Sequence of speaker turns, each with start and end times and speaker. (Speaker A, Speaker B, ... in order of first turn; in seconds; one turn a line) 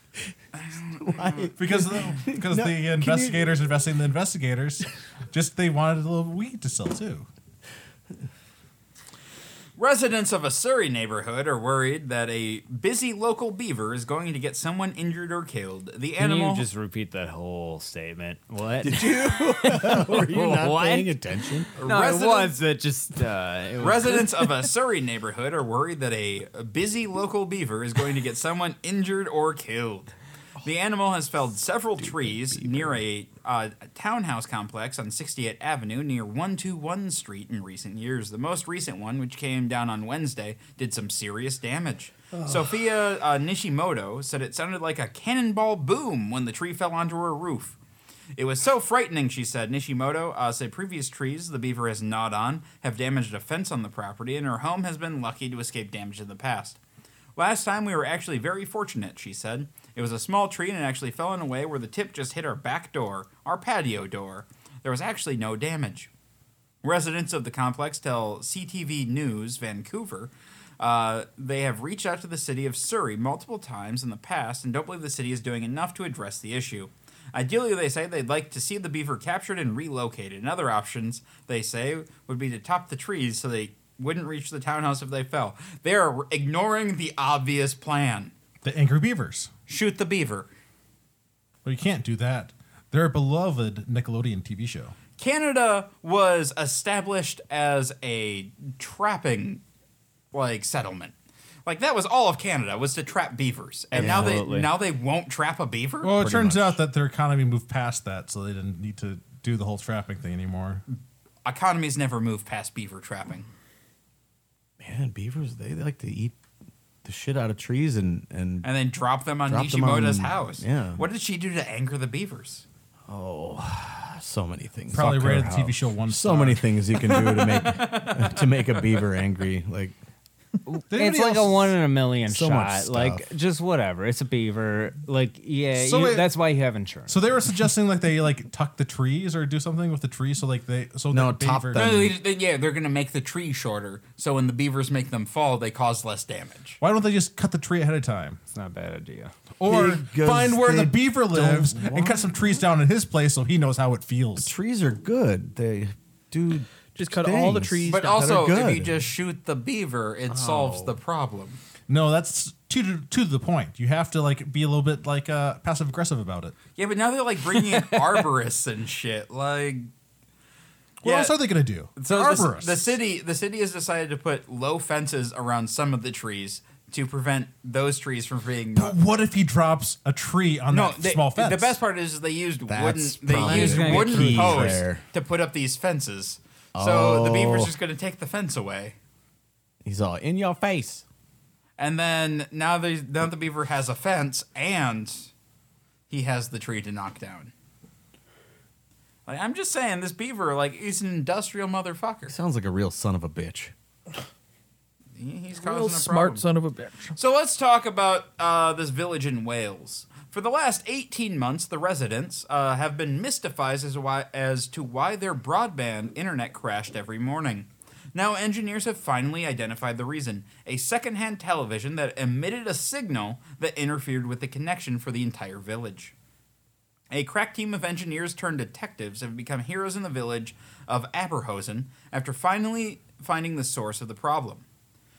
Speaker A: 0.6-1.5
Speaker B: 1.0-3.6
Speaker C: 1.6-7.3
Speaker A: 9.8-16.7
Speaker D: 16.2-21.1
Speaker B: 18.8-21.7
Speaker D: 21.8-24.5
Speaker A: 21.8-22.6
Speaker A: 23.8-47.8
Speaker B: 32.0-33.0
Speaker B: 42.3-42.8
Speaker A: 48.4-56.8
Speaker A: 57.4-66.1
Speaker A: 66.8-88.3
Speaker C: 88.6-89.5
Speaker A: 89.7-90.5
Speaker C: 91.7-95.0
Speaker A: 95.2-99.6
Speaker A: 100.3-101.1
Speaker A: 101.7-106.2
Speaker B: 103.9-104.4
Speaker D: 104.0-104.7
Speaker C: 106.0-110.8
Speaker B: 106.2-106.8
Speaker A: 110.9-113.5
Speaker B: 114.8-116.4
Speaker B: 117.0-118.7
Speaker A: 118.6-122.7
Speaker B: 119.5-121.0
Speaker B: 123.1-129.9
Speaker C: 124.9-126.7
Speaker A: 127.1-129.2
Speaker D: 130.7-137.3
Speaker C: 130.9-131.8
Speaker B: 132.3-133.2
Speaker C: 135.7-136.3
Speaker C: 137.1-141.9
Speaker B: 141.1-142.2
Speaker A: 141.8-146.8
Speaker C: 146.8-148.4
Speaker D: 148.5-149.3
Speaker C: 149.6-154.5
Speaker B: 149.7-152.3
Speaker B: 154.4-159.1
Speaker E: 157.0-158.5
Speaker A: 157.9-161.6
Speaker B: 160.3-160.9
Speaker C: 161.9-166.6
Speaker A: 166.8-169.9
Speaker A: 171.0-171.4
Speaker C: 171.0-173.0
Speaker A: 172.0-179.0
Speaker C: 178.8-181.8
Speaker A: 180.7-189.0
Speaker B: 182.7-185.0
Speaker D: 183.4-184.9
Speaker B: 186.8-187.7
Speaker B: 189.8-191.1
Speaker A: 191.8-195.3
Speaker A: 196.1-197.5
Speaker A: 199.3-202.3
Speaker B: 202.3-203.7
Speaker A: 205.2-206.4
Speaker E: 205.6-207.2
Speaker A: 207.2-226.1
Speaker A: 227.1-234.7